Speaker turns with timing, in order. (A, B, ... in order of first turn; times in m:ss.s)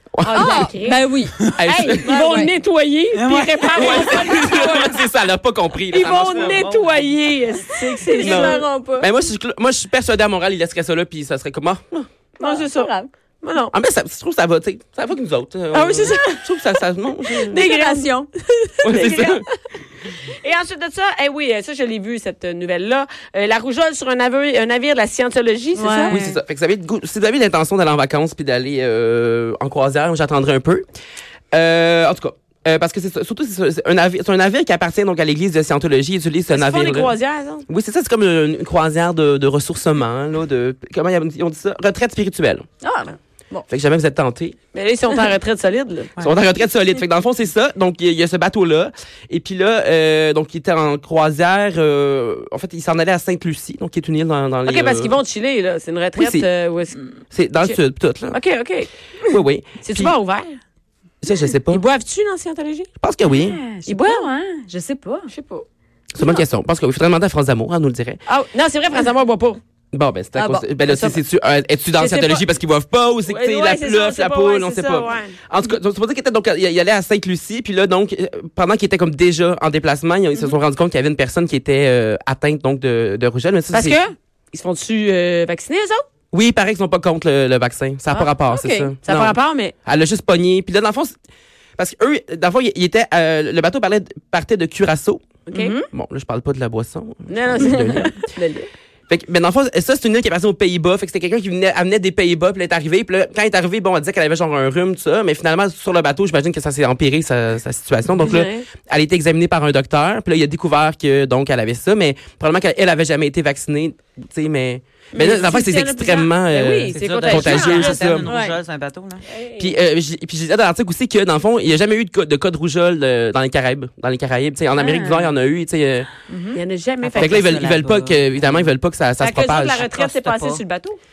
0:00.1-0:00.7 A
0:00.2-0:01.1 B
0:00.3-0:02.5 C
0:01.5-0:02.1 A
0:01.8-0:05.0 B
0:03.1-0:04.5 D
0:03.7-0:06.6 A
0:05.9-0:08.6 B
0:05.9-0:07.2 D
0:08.0-0:09.1 C
0:08.2-0:12.1 A
0:12.4-0:13.1 C
0:12.4-0:13.7 B
0:13.7-0:17.5 A
0:15.7-0:16.4 B
0:17.3-0:19.5 B
0:17.4-0:18.3 C
0:18.8-0:19.4 A
0:20.1-0:26.2 B
0:25.8-0:26.4 C
0:26.1-0:30.8 A
0:31.5-0:37.2 A
0:36.5-0:37.6 B
0:37.7-0:42.6 A
0:42.8-0:43.6 C
0:43.7-0:44.6 A
0:44.7-0:46.1 B
0:46.2-0:55.2 A
0:54.6-0:57.0 B
0:56.2-0:56.5 A
0:57.3-0:58.4 A
0:58.3-0:58.9 B
0:59.3-1:00.1 A
0:59.8-1:00.6 B
1:01.2-1:01.8 A
1:01.7-1:02.9 B
1:03.0-1:03.6 A
1:03.3-1:05.3 C
1:03.8-1:04.3 B
1:05.3-1:05.6 B
1:06.1-1:08.2 A
1:06.2-1:06.4 B
1:08.3-1:09.6 B
1:09.9-1:24.0 A
1:10.3-1:10.6 C
1:10.9-1:11.2 B
1:11.9-1:12.4 B
1:13.2-1:15.4 B
1:23.7-1:26.0 B
1:26.3-1:31.1 A
1:28.1-1:28.9 C
1:29.0-1:29.7 B
1:31.8-1:35.2 A
1:35.5-1:35.8 B
1:35.5-1:35.9 C
1:35.9-1:38.2 A
1:37.3-1:38.7 B
1:39.1-1:58.3 A
1:48.2-1:48.7 B
1:55.1-1:58.0 B
1:56.9-1:59.2 D
1:58.2-1:58.6 C
1:59.3-1:59.8 B
1:59.6-2:06.1 A
2:04.8-2:05.3 C
2:06.3-2:08.7 D
2:06.5-2:07.5 B
2:07.2-2:09.8 A
2:09.2-2:11.0 B
2:09.8-2:10.6 D